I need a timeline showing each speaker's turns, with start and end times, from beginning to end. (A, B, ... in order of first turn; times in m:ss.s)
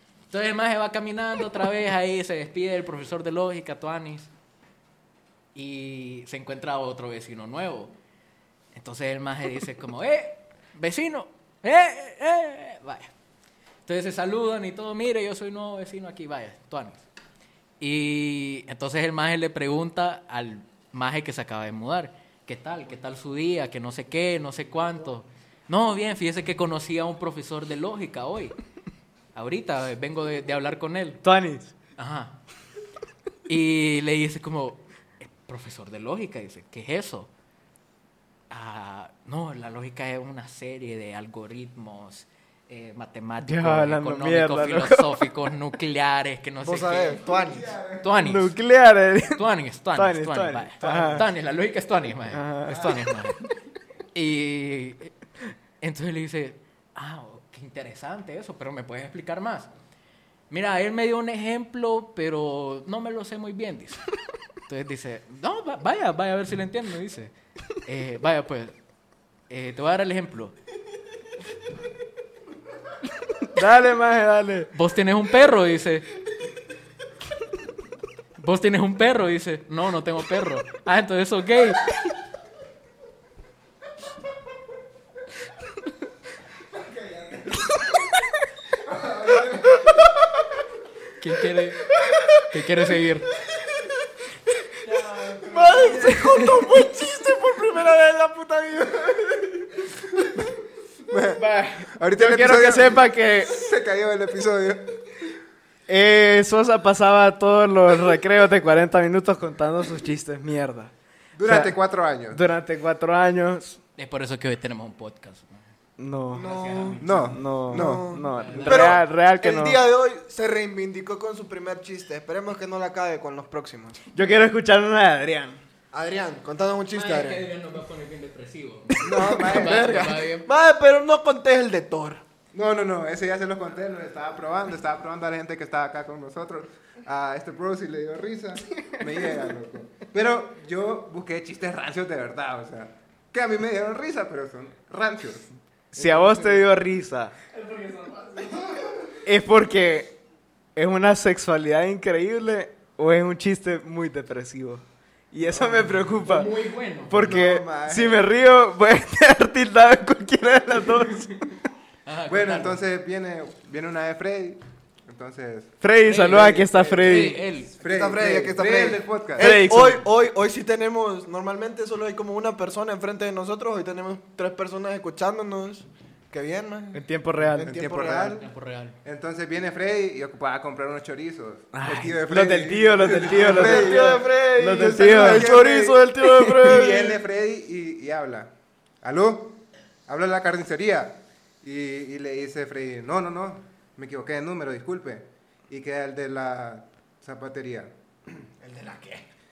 0:00.3-0:04.3 A
0:05.5-0:07.9 A
0:08.7-0:13.1 A
0:13.8-0:17.0 A
0:17.8-0:28.6 A
0:29.3-0:31.2 A
0:31.2-0:31.7 B
0:32.0-0:32.4 A
0:33.5-0:37.3 A
0:38.5-0:47.2 A
0:43.4-0:45.3 B
0:46.6-0:47.8 C
0:47.2-0:48.0 D
0:48.0-0:48.6 A
0:48.2-0:51.3 B
0:49.4-0:53.4 A
0:50.8-0:51.2 C
0:52.3-0:53.1 B
0:54.1-0:55.1 A
0:55.8-0:59.7 A
1:00.5-1:04.0 A
1:04.7-1:08.8 A
1:09.5-1:10.6 A
1:13.5-1:14.7 B
1:14.7-1:16.1 A
1:18.4-1:21.8 A
1:26.8-1:27.6 C
1:31.2-1:31.8 A
1:32.5-1:33.3 A
1:35.4-1:39.6 C
1:35.4-1:36.9 B
1:41.1-1:41.4 D
1:41.4-1:43.6 B
1:42.0-1:45.0 D
1:45.9-1:50.9 B
1:51.4-1:52.4 D
1:51.4-1:51.8 B
1:52.3-1:53.8 B
1:54.0-1:55.7 A
1:56.0-1:56.5 B
1:56.3-1:59.0 A
1:56.3-2:04.0 C
1:57.0-1:57.4 D
1:57.3-1:59.8 B
2:04.1-2:05.6 B
2:05.9-2:07.4 C
2:06.9-2:10.5 A
2:09.0-2:10.1 D
2:09.1-2:12.2 C
2:12.5-2:25.5 D
2:25.9-2:27.4 B
2:26.0-2:26.6 D
2:29.2-2:30.2 B
2:30.8-2:36.5 B
2:35.6-2:37.3 A
2:37.1-2:41.4 B
2:37.1-2:38.2 D
2:42.0-2:42.8 A
2:42.3-2:47.2 D
2:45.8-2:47.4 B
2:46.1-2:47.7 A
2:47.8-2:49.5 D
2:47.8-2:58.4 C
2:49.4-2:50.0 B
2:56.9-2:57.8 B
2:57.6-2:58.4 D
2:58.4-2:59.0 A
2:59.0-3:06.1 D
3:01.7-3:05.5 B
3:03.4-3:07.2 C
3:06.2-3:06.8 B
3:06.6-3:18.0 D
3:18.6-3:19.2 C